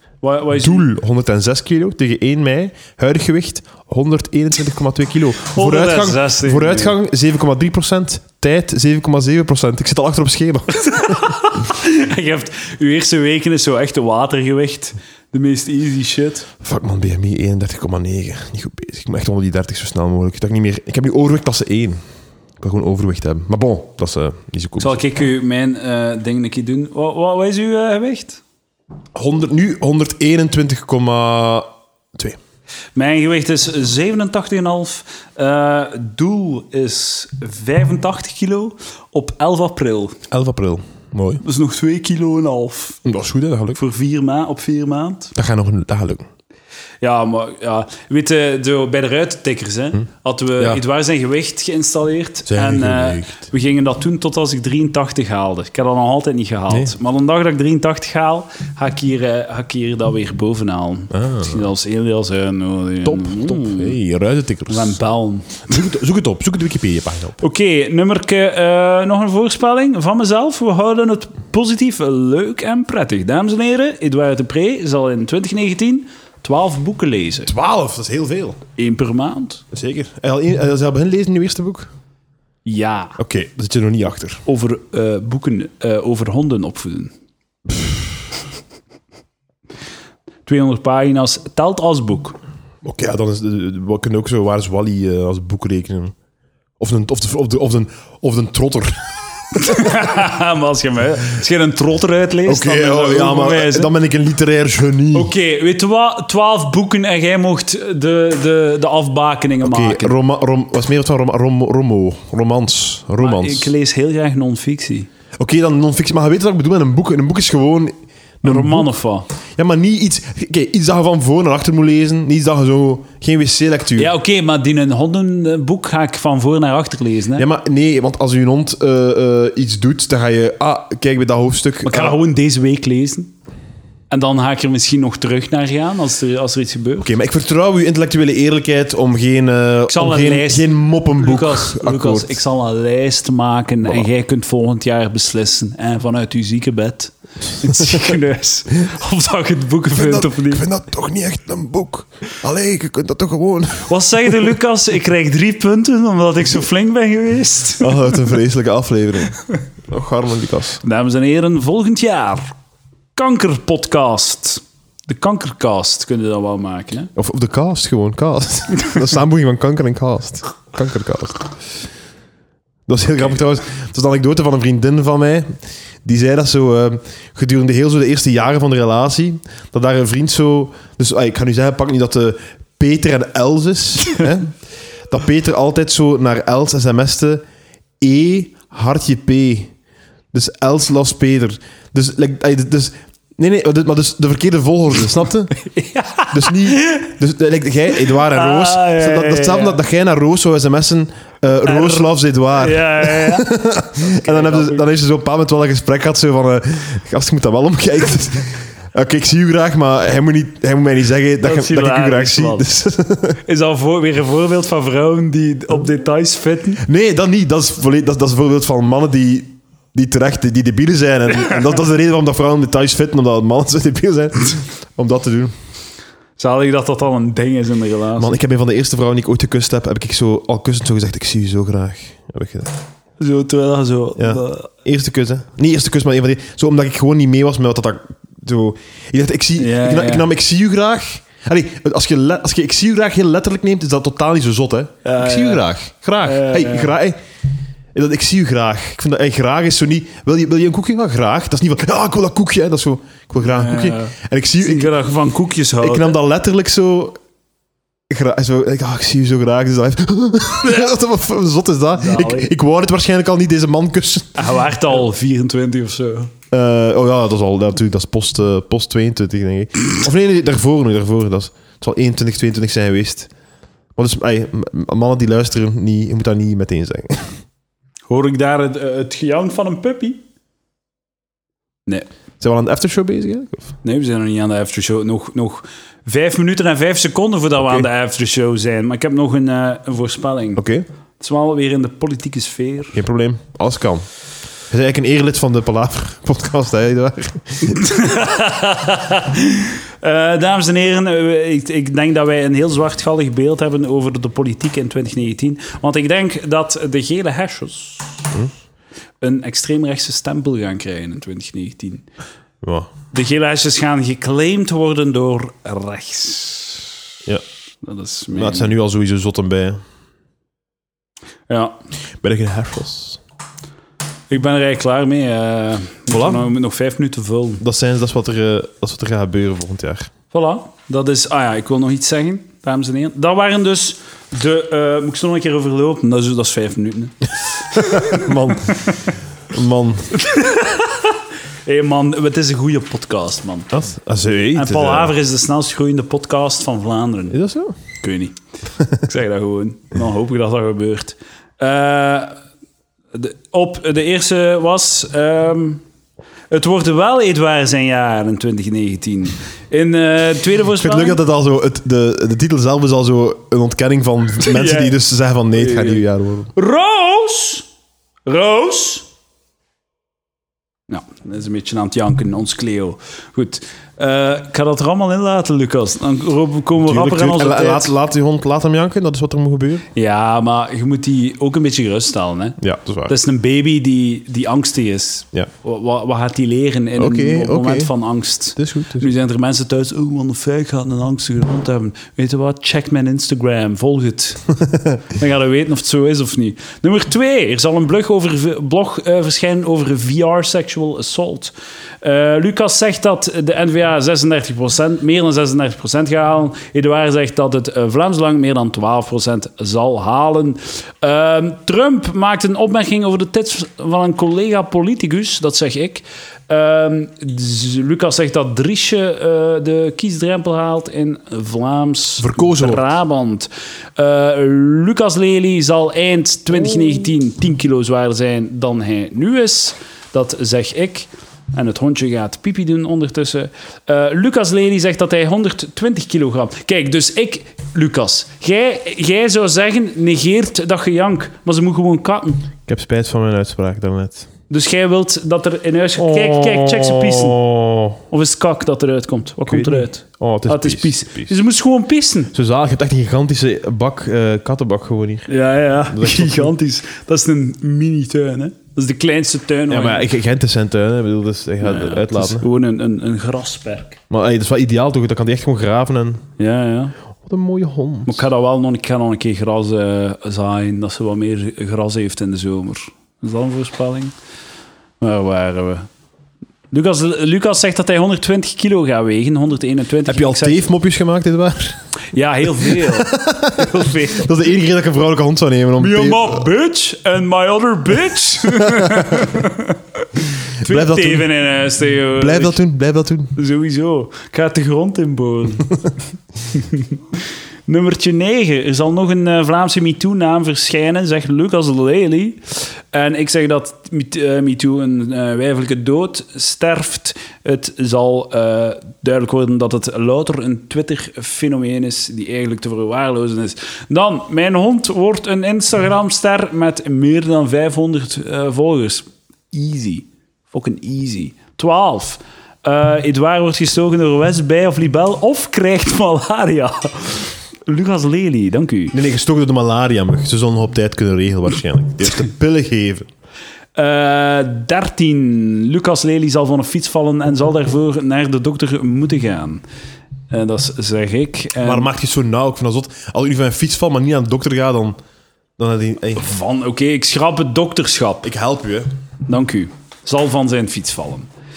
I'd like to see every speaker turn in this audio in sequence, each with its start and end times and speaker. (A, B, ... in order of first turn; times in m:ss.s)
0:00.2-0:00.9 A
0:00.6-0:11.3 B
0:05.5-0:07.0 A
0:10.8-0:16.5 A
0:16.6-0:22.0 B
0:22.6-0:25.0 B
0:24.8-0:28.4 A
0:29.1-0:32.4 B
0:32.9-0:40.2 A
0:40.3-0:41.4 B
0:41.4-0:43.0 A
0:43.0-0:43.8 B
0:43.8-0:45.3 A
0:45.3-0:46.3 B
0:47.0-1:04.0 A
0:52.5-0:53.5 B
0:56.7-0:56.9 B
1:01.1-1:01.6 B
1:03.0-1:05.0 B
1:04.7-1:05.7 A
1:05.7-1:07.4 B
1:07.4-1:17.5 A
1:17.4-1:18.6 B
1:18.8-1:19.6 A
1:19.7-1:21.9 B
1:22.6-1:23.2 A
1:23.2-1:24.4 B
1:24.4-1:27.1 A
1:30.4-1:32.4 A
1:32.8-1:36.1 B
1:36.8-1:39.1 B
1:39.5-1:43.9 A
1:42.4-1:45.3 B
1:45.1-1:50.1 A
1:49.6-1:53.7 B
1:53.2-1:55.1 A
1:55.4-1:58.9 B
1:58.4-1:59.3 A
1:59.5-2:04.1 B
2:04.0-2:07.4 A
2:07.4-2:12.2 B
2:11.8-2:13.3 A
2:14.1-2:17.1 A
2:17.0-2:22.4 B
2:19.9-2:30.6 A
2:27.8-2:28.1 B
2:29.9-2:34.3 B
2:33.8-2:37.9 A
2:37.8-2:40.8 B
2:40.8-2:42.5 A
2:43.1-2:47.1 A
2:47.2-2:51.4 B
2:52.9-3:04.5 B
3:05.1-3:07.4 B
3:08.0-3:09.7 B
3:10.3-3:15.6 B
3:15.6-3:17.1 A
3:16.3-3:33.4 B
3:18.3-3:19.8 A
3:21.6-3:23.5 A
3:24.0-3:24.8 A
3:31.4-3:32.7 A
3:33.4-3:36.8 A
3:36.8-3:45.5 B
3:46.4-3:48.4 A
3:48.2-3:52.7 B
3:53.2-3:54.7 A
3:54.2-4:07.2 B
3:59.6-4:00.2 A
4:05.0-4:05.7 A
4:06.2-4:06.9 A
4:07.9-4:14.9 B
4:13.4-4:16.1 A
4:15.8-4:17.2 B
4:18.1-4:24.4 B
4:22.0-4:22.5 A
4:24.3-4:26.3 A
4:26.5-4:33.3 B
4:34.0-4:37.4 B
4:38.1-4:40.2 A
4:42.4-4:43.7 B
4:43.8-4:50.6 A
4:47.6-4:47.9 B
4:50.6-4:50.8 B
4:51.2-4:53.0 A
4:52.9-4:54.0 B
4:54.7-4:57.8 B
4:57.7-5:08.2 A
5:09.2-5:12.1 A
5:12.6-5:12.9 B
5:13.1-5:16.8 A
5:17.8-5:18.7 A
5:18.3-5:19.8 B
5:21.5-5:21.8 A
5:22.2-5:23.2 B
5:24.3-5:27.6 A
5:26.1-5:26.4 B
5:27.6-5:30.1 B
5:30.3-5:39.0 A
5:37.9-5:38.9 B
5:39.5-5:40.1 B
5:40.2-5:43.7 A
5:43.7-5:45.1 B
5:44.5-5:47.4 A
5:47.3-5:47.8 B
5:48.0-5:48.4 A
5:48.9-5:52.4 A
5:53.1-5:55.8 A
5:56.5-6:01.2 A
6:00.8-6:06.5 B
6:04.4-6:05.0 A
6:05.5-6:07.7 A
6:08.2-6:09.1 A
6:10.9-6:17.9 A
6:16.8-6:19.8 B
6:19.9-6:34.5 A
6:22.6-6:23.1 B
6:27.0-6:27.9 B
6:28.6-6:29.1 B
6:35.1-7:22.5 A
7:02.2-7:02.8 B
7:22.6-7:24.3 B
7:24.5-7:27.4 A
7:26.0-7:28.0 B
7:28.1-7:32.3 A
7:29.5-7:31.3 B
7:32.3-7:35.3 B
7:35.3-7:40.0 A
7:35.9-7:36.5 B
7:39.7-7:42.4 B
7:41.6-7:44.0 A
7:44.1-7:46.2 B
7:46.4-7:47.0 A
7:47.2-7:48.2 B
7:48.0-7:54.1 A
7:55.0-7:55.9 A
7:56.7-8:00.6 A
8:00.0-8:01.8 B
8:02.1-8:04.3 A
8:02.6-8:06.4 B
8:05.8-8:09.8 A
8:08.6-8:09.2 B
8:10.6-8:11.3 B
8:10.6-8:12.6 A
8:12.2-8:13.3 B
8:13.3-8:15.8 A
8:16.5-8:17.0 A
8:17.7-8:48.9 A
8:48.9-8:53.1 B
8:53.8-8:59.6 A
9:00.3-9:01.9 A
9:01.6-9:05.0 B
9:05.6-9:06.3 B
9:06.2-9:08.3 A
9:08.2-9:08.9 B
9:09.2-9:11.3 A